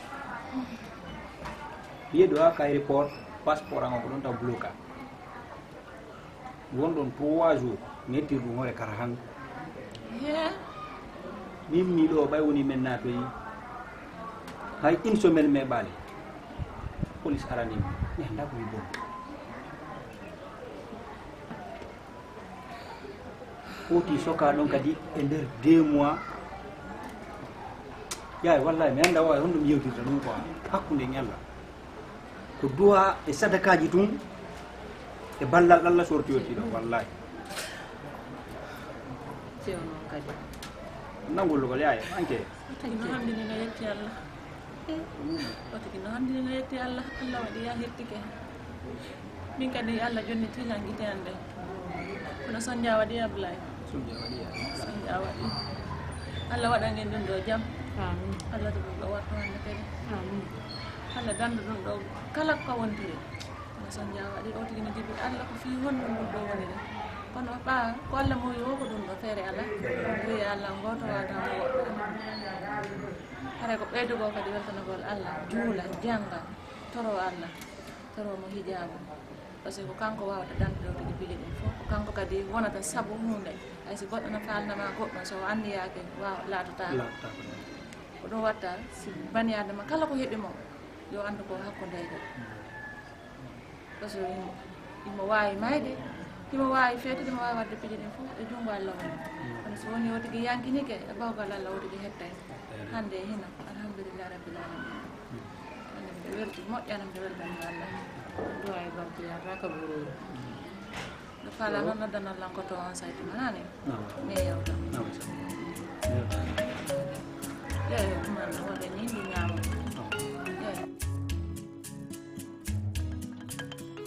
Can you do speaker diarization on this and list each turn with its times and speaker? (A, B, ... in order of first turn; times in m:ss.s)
0:02.1-0:04.8 A
0:06.7-0:09.2 A
0:10.1-0:10.6 B
0:11.7-0:13.3 A
0:14.8-0:16.0 A
0:17.2-0:18.9 A
0:23.9-0:26.2 A
0:28.4-0:31.4 A
0:32.6-0:34.2 A
0:35.4-0:37.1 A
0:36.4-0:36.7 C
0:39.6-0:40.4 C
0:41.3-0:42.5 A
0:42.7-0:44.2 B
0:42.8-0:43.2 C
0:45.2-0:45.6 A
0:45.5-0:48.3 B
0:49.6-0:51.4 B
0:52.2-0:53.8 B
0:53.9-0:54.9 A
0:54.7-0:55.6 B
0:56.5-0:57.7 B
0:58.0-0:58.4 C
0:58.5-0:59.9 B
1:00.1-1:00.5 C
1:01.1-1:03.2 B
1:03.8-1:12.2 B
1:13.6-1:17.5 B
1:18.1-1:19.0 B
1:19.6-1:27.0 B
1:26.9-1:27.6 A
1:28.2-1:30.6 B
1:31.1-1:32.2 B
1:34.0-1:36.0 B
1:36.5-1:42.4 B
1:42.7-1:43.0 A
1:42.9-1:45.1 B
1:45.9-1:47.9 B
1:48.5-1:50.1 C
1:51.4-1:53.7 B
1:53.9-1:54.2 A
1:54.2-1:54.9 B
1:54.9-1:55.5 A
1:56.1-1:56.5 A
1:56.9-1:57.2 B
1:57.9-1:59.8 B